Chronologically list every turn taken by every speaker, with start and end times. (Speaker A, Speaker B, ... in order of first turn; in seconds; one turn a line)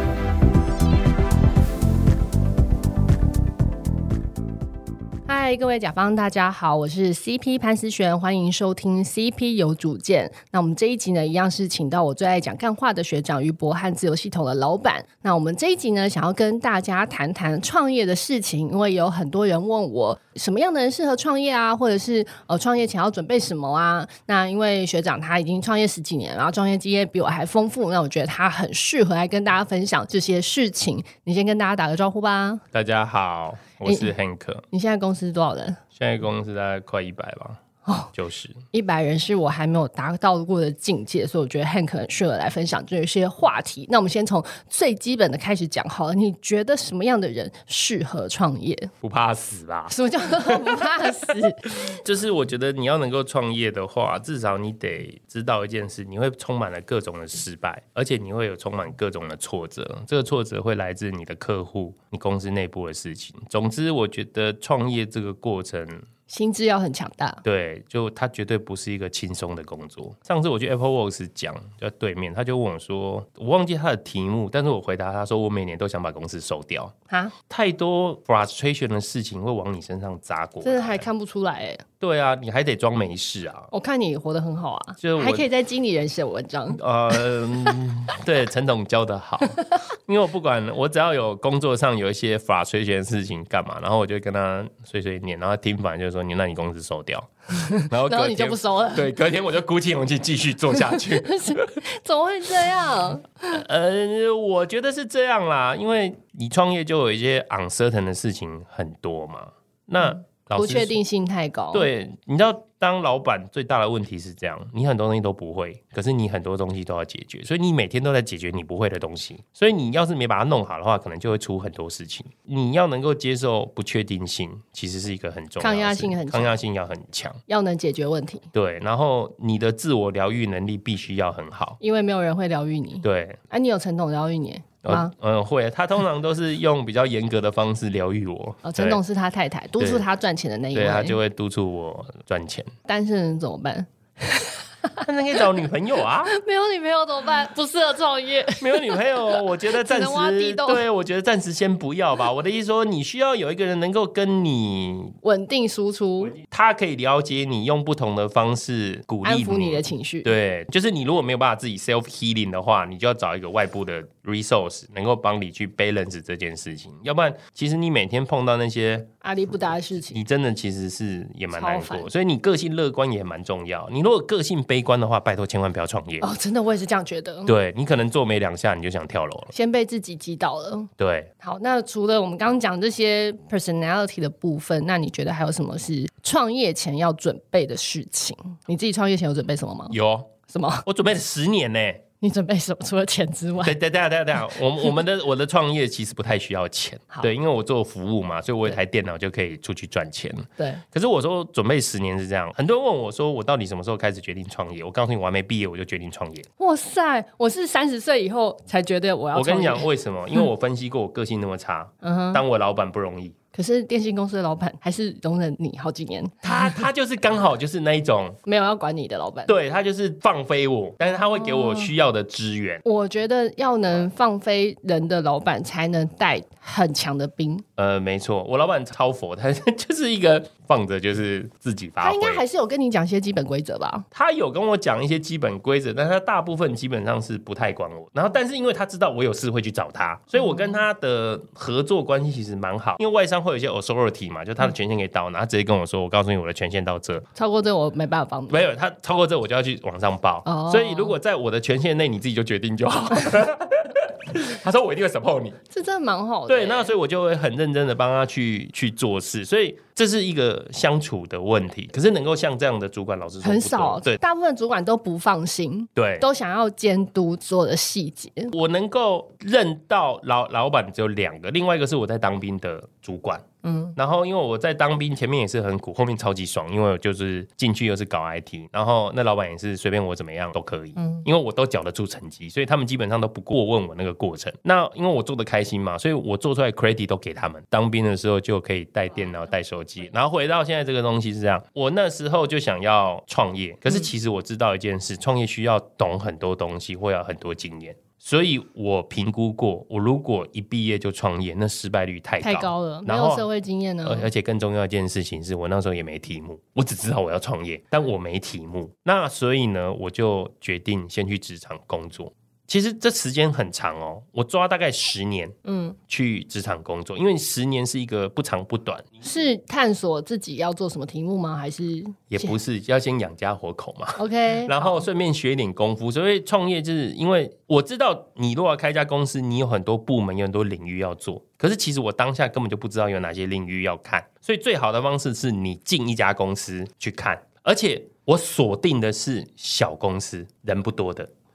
Speaker A: 5.3-32.6
Speaker B: 32.7-34.6
Speaker A: 33.8-34.1
Speaker A: 34.7-35.8
Speaker B: 36.0-37.6
Speaker A: 37.9-38.1
Speaker B: 38.1-38.6
Speaker A: 38.7-48.9
Speaker B: 49.0-66.0
Speaker A: 49.9-51.9
Speaker A: 66.3-67.4
Speaker B: 67.4-76.9
Speaker B: 77.5-81.0
Speaker A: 80.6-81.8
Speaker B: 82.0-83.7
Speaker A: 83.7-87.7
Speaker B: 85.0-85.5
Speaker B: 86.7-97.3
Speaker A: 97.5-99.1
Speaker B: 97.8-101.6
Speaker A: 100.7-103.6
Speaker B: 103.5-111.0
Speaker A: 110.6-111.9
Speaker B: 111.7-127.4
Speaker A: 125.6-126.5
Speaker A: 127.5-128.4
Speaker B: 128.5-131.8
Speaker A: 131.8-135.1
Speaker B: 133.0-133.4
Speaker B: 134.8-139.0
Speaker A: 138.6-141.2
Speaker B: 139.8-140.0
Speaker B: 140.7-142.7
Speaker A: 142.8-145.0
Speaker B: 145.0-146.3
Speaker A: 146.3-150.8
Speaker B: 148.6-155.1
Speaker A: 155.2-156.3
Speaker B: 156.2-169.1
Speaker A: 159.2-160.3
Speaker A: 169.2-170.2
Speaker B: 170.1-176.3
Speaker A: 171.5-172.1
Speaker A: 176.2-177.5
Speaker B: 177.4-179.5
Speaker A: 179.5-189.9
Speaker B: 181.0-181.3
Speaker B: 189.9-190.3
Speaker A: 190.5-190.8
Speaker B: 190.8-192.0
Speaker A: 192.2-193.8
Speaker B: 193.6-206.5
Speaker A: 200.6-200.8
Speaker A: 206.6-209.9
Speaker B: 209.3-213.3
Speaker A: 212.0-212.4
Speaker A: 213.5-216.8
Speaker B: 216.4-218.4
Speaker A: 218.4-219.5
Speaker B: 219.5-222.8
Speaker A: 221.4-221.9
Speaker A: 222.8-227.6
Speaker B: 227.8-232.4
Speaker A: 232.0-234.0
Speaker B: 234.1-247.2
Speaker A: 240.4-240.8
Speaker A: 247.3-248.7
Speaker B: 248.5-255.6
Speaker A: 250.4-251.2
Speaker A: 255.7-256.9
Speaker B: 256.5-264.2
Speaker A: 263.4-268.5
Speaker B: 265.9-266.3
Speaker B: 268.5-273.4
Speaker A: 273.6-274.0
Speaker B: 273.9-303.5
Speaker A: 280.9-281.2
Speaker A: 302.4-304.3
Speaker B: 304.0-315.5
Speaker A: 315.6-316.0
Speaker B: 316.1-319.2
Speaker A: 319.2-322.5
Speaker B: 322.3-341.3
Speaker A: 324.2-324.9